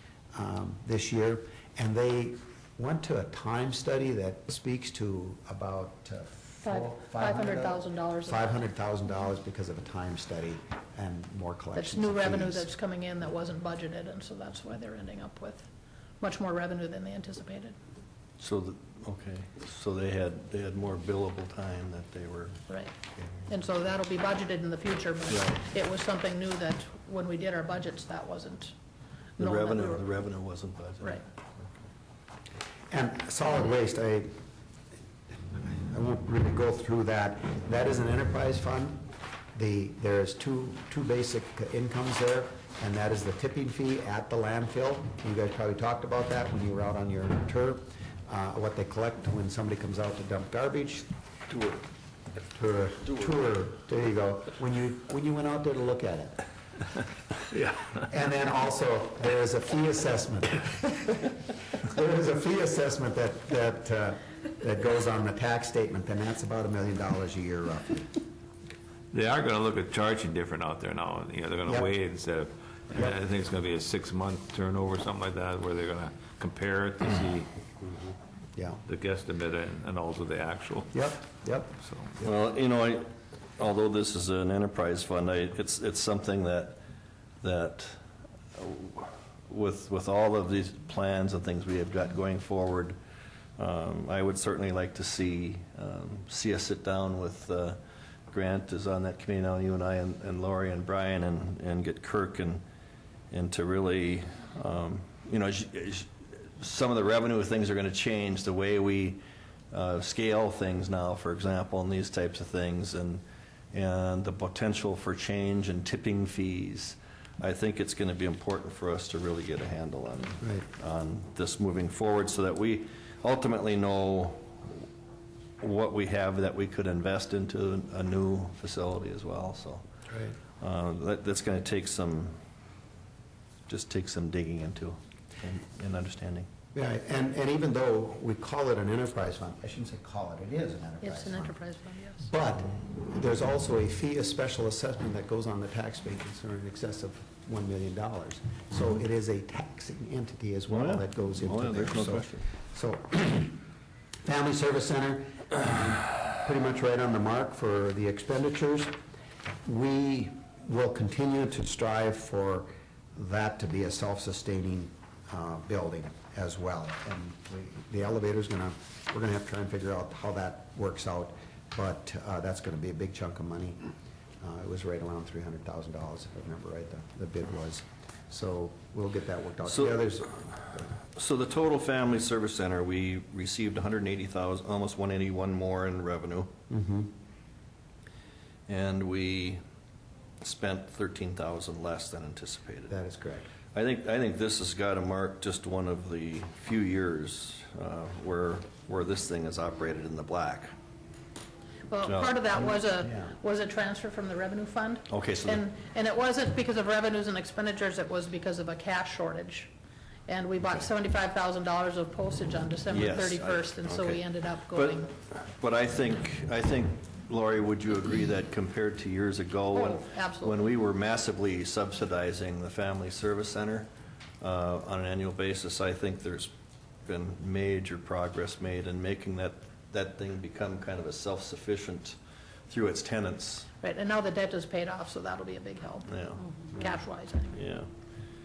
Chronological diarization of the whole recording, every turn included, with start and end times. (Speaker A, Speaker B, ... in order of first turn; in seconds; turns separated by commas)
Speaker A: 0.3-12.7, Speaker B: 6.6-8.5, Speaker B: 11.8-15.7, Speaker B: 16.2-17.8, Speaker C: 18.4-22.6, Speaker B: 22.7-22.9, Speaker B: 23.5-28.7, Speaker C: 25.3-25.6, Speaker B: 29.4-30.0, Speaker C: 29.4-31.2, Speaker A: 32.9-34.3, Speaker A: 35.7-39.0, Speaker A: 39.5-51.1, Speaker C: 51.5-51.8, Speaker A: 52.5-56.4, Speaker A: 57.6-61.3, Speaker A: 61.8-68.1, Speaker D: 69.1-77.5, Speaker A: 71.7-71.9, Speaker A: 78.5-78.8, Speaker D: 78.9-81.0, Speaker A: 80.9-82.3, Speaker C: 82.2-86.8, Speaker C: 87.4-88.0, Speaker C: 88.5-93.0, Speaker C: 93.6-97.8, Speaker C: 98.3-102.6, Speaker C: 103.3-124.8, Speaker A: 120.4-120.7, Speaker C: 125.6-129.8, Speaker A: 130.1-130.4, Speaker C: 130.6-132.4, Speaker C: 133.7-136.5, Speaker A: 136.7-141.6, Speaker B: 141.0-142.3, Speaker A: 142.2-153.6, Speaker C: 150.7-152.5, Speaker A: 154.2-159.0, Speaker A: 159.7-173.9, Speaker A: 174.4-180.9, Speaker C: 179.7-179.9, Speaker C: 181.2-186.5, Speaker A: 186.7-187.1, Speaker C: 188.7-189.6, Speaker C: 190.4-193.0, Speaker A: 192.9-193.5, Speaker C: 193.7-200.7, Speaker B: 201.9-209.7, Speaker C: 202.0-202.4, Speaker A: 202.6-203.3, Speaker C: 205.1-205.6, Speaker B: 210.3-215.1, Speaker C: 212.9-223.9, Speaker B: 219.7-220.6, Speaker C: 224.4-226.5, Speaker C: 227.0-232.2, Speaker C: 232.7-233.7, Speaker B: 233.8-237.6, Speaker C: 236.1-237.0, Speaker C: 237.5-237.9